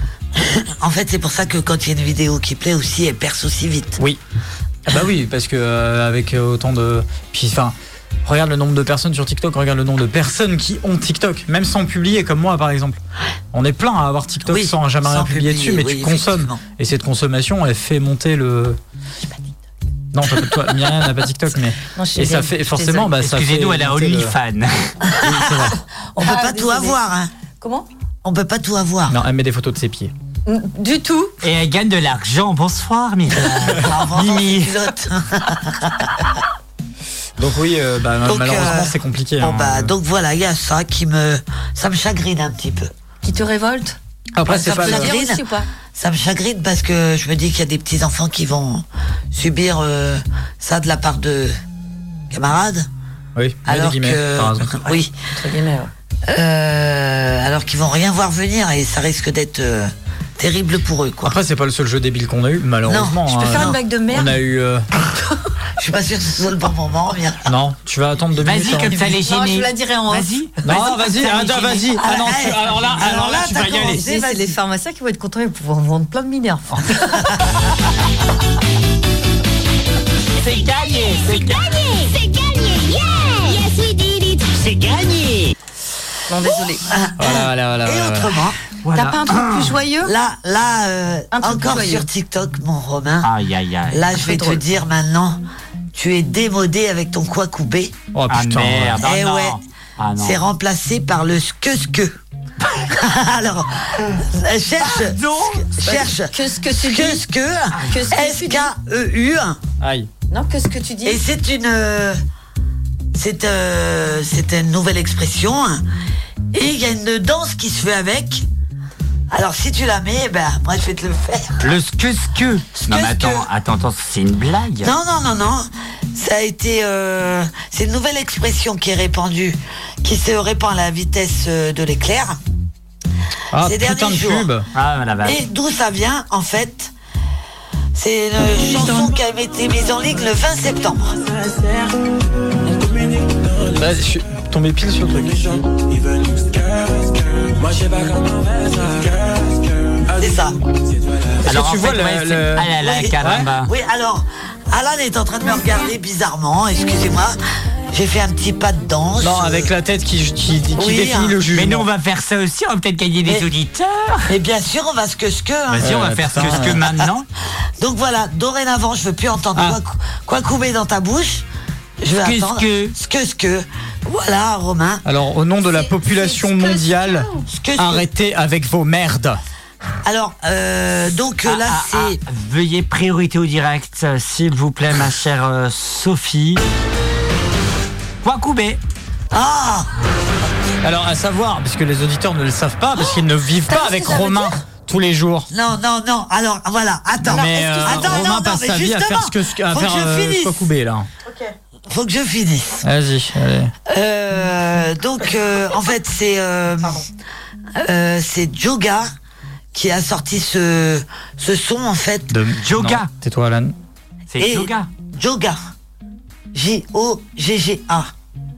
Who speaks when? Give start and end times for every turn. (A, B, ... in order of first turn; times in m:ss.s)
0:00.4-0:04.0 A
0:04.8-0:13.0 B
0:13.5-0:18.8 B
0:14.5-0:16.6 A
0:20.1-0:24.3 B
0:21.9-0:23.1 C
0:23.2-0:25.1 D
0:25.2-0:27.3 A
0:25.2-0:25.8 B
0:26.2-0:27.0 C
0:27.6-0:27.9 C
0:28.2-0:29.2 A
0:29.1-0:30.1 B
0:30.4-0:31.3 C
0:31.4-0:34.8 D
0:33.4-0:36.1 A
0:37.4-0:39.9 B
0:38.2-0:42.9 A
0:43.2-0:44.0 C
0:44.3-0:45.2 B
0:44.4-0:51.6 A
0:44.5-0:45.7 C
0:52.3-0:52.9 A
0:53.4-0:54.8 B
0:53.6-0:55.2 A
0:55.3-0:55.9 C
0:56.2-1:01.4 A
1:01.2-1:04.9 B
1:02.8-1:03.8 A
1:03.3-1:04.4 C
1:05.8-1:07.5 A
1:07.4-1:09.1 B
1:08.4-1:12.0 D
1:09.0-1:10.3 C
1:10.6-1:14.0 B
1:12.0-1:14.6 A
1:13.8-1:17.4 C
1:20.4-1:21.6 D
1:20.5-1:25.2 E
1:24.6-1:25.5 D
1:26.3-1:26.9 C
1:26.8-1:28.6 A
1:27.2-1:28.4 B
1:28.8-1:29.7 D
1:28.9-1:30.1 C
1:30.0-1:33.3 A
1:31.3-1:32.0 C
1:33.2-1:34.2 D
1:33.9-1:38.0 A
1:34.2-1:34.6 C
1:38.1-1:39.0 B
1:38.3-1:40.4 D
1:39.0-1:39.6 A
1:40.2-1:42.2 A
1:42.9-1:49.6 A
1:44.8-1:45.7 D
1:45.8-1:48.7 C
1:49.8-1:50.1 B
1:50.3-1:51.2 C
1:51.0-1:52.2 A
1:53.1-1:55.8 A
1:56.5-1:58.5 A
1:59.3-2:01.7 A
2:01.6-2:04.9 D
2:02.8-2:03.5 A
2:04.8-2:12.4 A
2:13.5-2:14.7 B
2:13.6-2:14.5 A
2:14.7-2:15.4 D
2:15.2-2:16.9 A
2:17.9-2:21.2 A
2:21.5-2:21.8 C
2:23.7-2:25.6 B
2:30.1-2:30.6 A
2:31.4-2:33.5 B
2:31.4-2:33.7 D
2:32.8-2:37.4 A
2:37.9-2:39.7 A
2:39.2-2:41.9 B
2:40.7-2:41.4 A
2:41.5-2:44.3 D
2:43.2-2:43.5 A
2:44.3-2:47.0 A
2:45.7-2:47.3 D
2:45.8-2:46.8 B
2:47.8-2:51.4 A
2:52.0-2:55.0 A
2:52.1-2:52.9 D
2:55.0-2:59.4 B
2:55.6-2:57.4 C
2:57.5-2:58.1 A
3:00.0-3:02.2 A
3:01.4-3:06.6 D
3:08.2-3:08.8 D
3:09.3-3:09.9 A
3:10.8-3:15.5 B
3:13.7-3:14.5 C
3:15.5-3:20.7 A
3:17.2-3:18.3 C
3:17.2-3:21.1 B
3:21.2-3:21.5 C
3:21.9-3:22.8 A
3:22.8-3:23.7 B
3:23.8-3:27.0 A
3:27.8-3:29.1 A
3:29.7-3:32.3 A
3:32.3-3:33.7 B
3:32.6-3:33.1 D
3:34.3-3:34.9 D
3:34.4-3:35.7 A
3:36.5-3:38.1 A